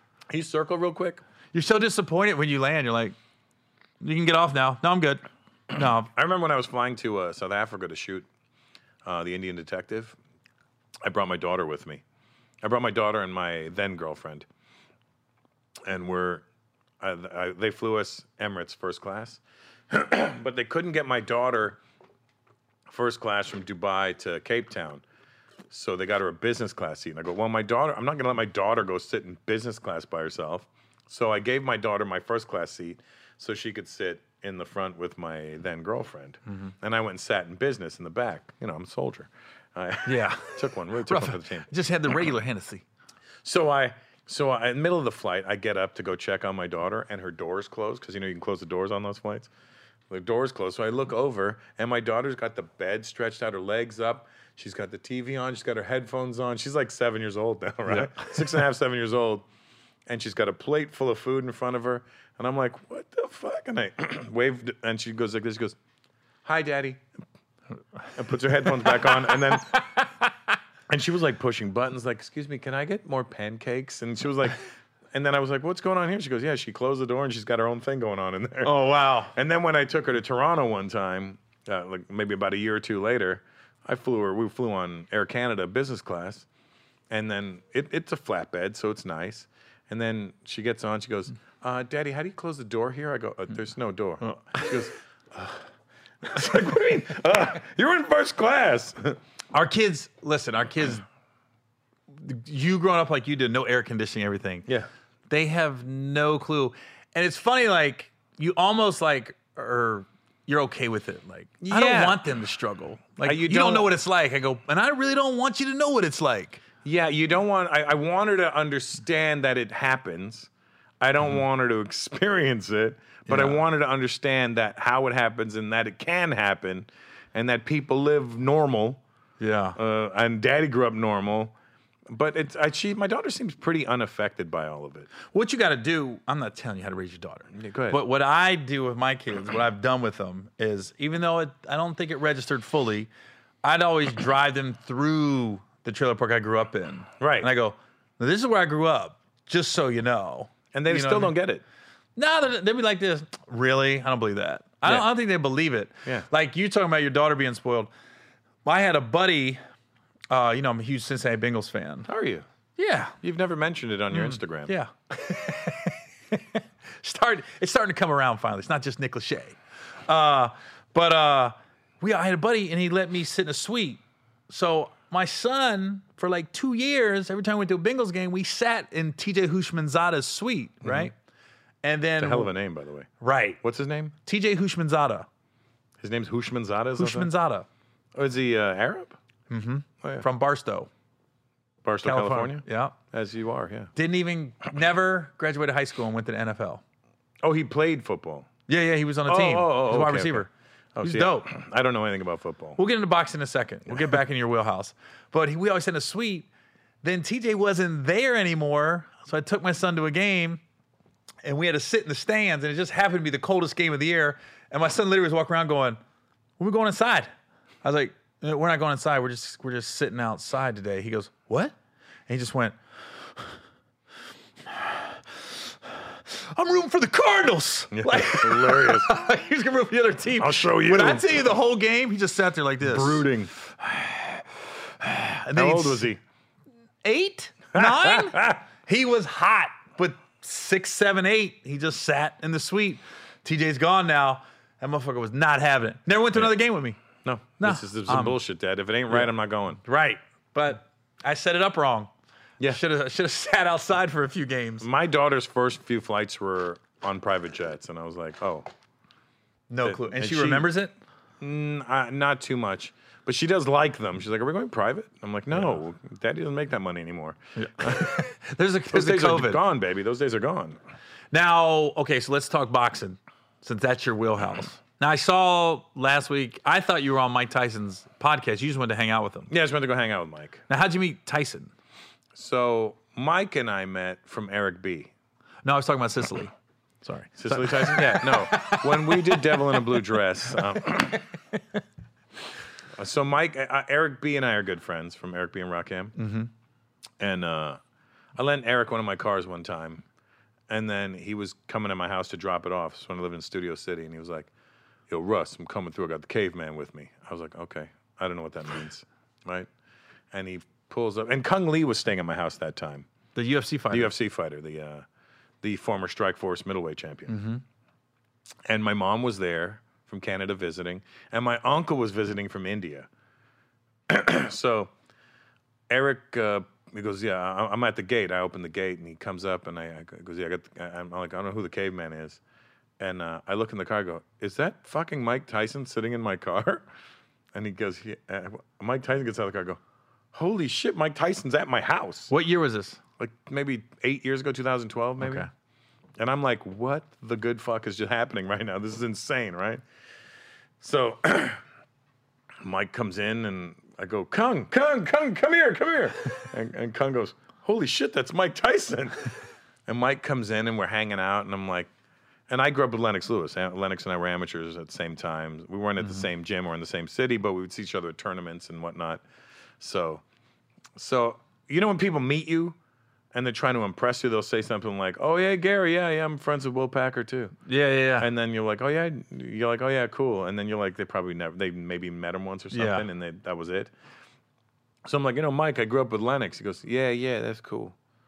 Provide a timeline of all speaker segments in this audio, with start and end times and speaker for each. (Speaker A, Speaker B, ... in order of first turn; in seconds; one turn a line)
Speaker A: 0.3-1.2
Speaker B: 1.5-3.1
Speaker B: 4.0-6.1
Speaker A: 6.1-8.3
Speaker A: 9.0-10.2
Speaker A: 11.0-12.0
Speaker A: 12.6-14.4
Speaker A: 15.8-16.4
Speaker A: 17.0-21.8
Speaker A: 22.9-25.0
Speaker A: 25.7-41.7
Speaker B: 40.0-42.8
Speaker A: 43.4-49.5
Speaker A: 50.1-59.4
Speaker B: 57.9-58.4
Speaker A: 60.1-65.8
Speaker A: 66.4-67.0
Speaker A: 68.1-69.8
Speaker B: 68.7-70.3
Speaker A: 70.9-74.6
Speaker A: 75.1-78.7
Speaker B: 78.6-79.3
Speaker A: 79.3-86.5
Speaker A: 87.1-95.7
Speaker A: 96.2-99.2
Speaker B: 99.5-101.0
Speaker B: 102.1-104.7
Speaker B: 105.3-116.6
Speaker A: 111.6-112.2
Speaker A: 113.2-113.9
Speaker A: 116.8-120.5
Speaker A: 121.0-129.0
Speaker B: 123.3-123.6
Speaker B: 129.4-129.8
Speaker A: 129.8-131.5
Speaker A: 132.1-135.1
Speaker B: 135.3-143.1
Speaker A: 137.5-138.0
Speaker B: 143.6-151.3
Speaker A: 147.2-147.5
Speaker A: 150.7-151.6
Speaker B: 152.2-157.9
Speaker B: 158.6-159.6
Speaker B: 160.3-162.1
Speaker A: 162.1-162.4
Speaker B: 162.8-163.2
Speaker A: 163.2-164.7
Speaker B: 164.1-181.1
Speaker A: 180.8-181.1
Speaker B: 181.8-182.5
Speaker A: 182.2-183.1
Speaker B: 183.2-183.6
Speaker A: 183.6-184.1
Speaker B: 184.2-185.3
Speaker A: 186.0-187.3
Speaker B: 186.9-187.7
Speaker A: 188.1-189.2
Speaker B: 189.5-190.9
Speaker A: 191.8-193.9
Speaker B: 192.0-192.9
Speaker B: 193.9-196.8
Speaker A: 197.4-198.5
Speaker B: 198.7-200.5
Speaker A: 199.3-202.8
Speaker B: 201.0-201.5
Speaker B: 202.8-206.5
Speaker A: 203.9-204.2
Speaker B: 207.0-210.6
Speaker B: 211.4-216.0
Speaker B: 216.6-217.3
Speaker B: 217.8-221.7
Speaker B: 222.3-222.8
Speaker B: 224.7-234.5
Speaker A: 227.9-229.1
Speaker A: 230.4-231.5
Speaker A: 232.8-233.5
Speaker B: 235.0-236.1
Speaker A: 235.5-236.2
Speaker B: 237.0-247.0
Speaker A: 237.7-238.6
Speaker A: 247.2-249.8
Speaker B: 247.6-248.4
Speaker B: 249.8-252.1
Speaker B: 252.6-254.9
Speaker A: 254.8-258.6
Speaker B: 259.7-260.9
Speaker A: 259.8-260.7
Speaker A: 261.4-268.2
Speaker B: 265.5-265.8
Speaker B: 267.6-269.6
Speaker A: 268.9-270.8
Speaker B: 271.3-279.5
Speaker A: 279.5-280.6
Speaker B: 280.7-281.7
Speaker A: 282.3-285.1
Speaker B: 285.6-290.0
Speaker A: 287.4-291.2
Speaker A: 292.9-296.1
Speaker B: 296.2-296.5
Speaker A: 297.2-297.8
Speaker A: 298.4-300.0
Speaker A: 300.7-304.5
Speaker A: 305.1-309.7
Speaker A: 310.3-313.1
Speaker B: 313.3-314.1
Speaker A: 313.9-315.0
Speaker A: 315.6-317.4
Speaker B: 317.3-317.6
Speaker A: 318.7-323.1
Speaker A: 324.1-324.9
Speaker A: 325.9-332.4
Speaker A: 333.0-336.8
Speaker A: 337.5-339.8
Speaker A: 340.3-342.3
Speaker B: 342.3-343.0
Speaker A: 343.2-345.5
Speaker B: 345.2-345.5
Speaker A: 346.2-349.8
Speaker A: 350.8-351.6
Speaker A: 352.6-359.3
Speaker A: 359.9-361.9
Speaker A: 362.5-369.2
Speaker A: 369.8-370.2
Speaker A: 370.9-372.8
Speaker A: 373.3-377.5
Speaker B: 377.6-378.3
Speaker A: 378.2-383.9
Speaker B: 382.7-383.1
Speaker A: 385.0-387.9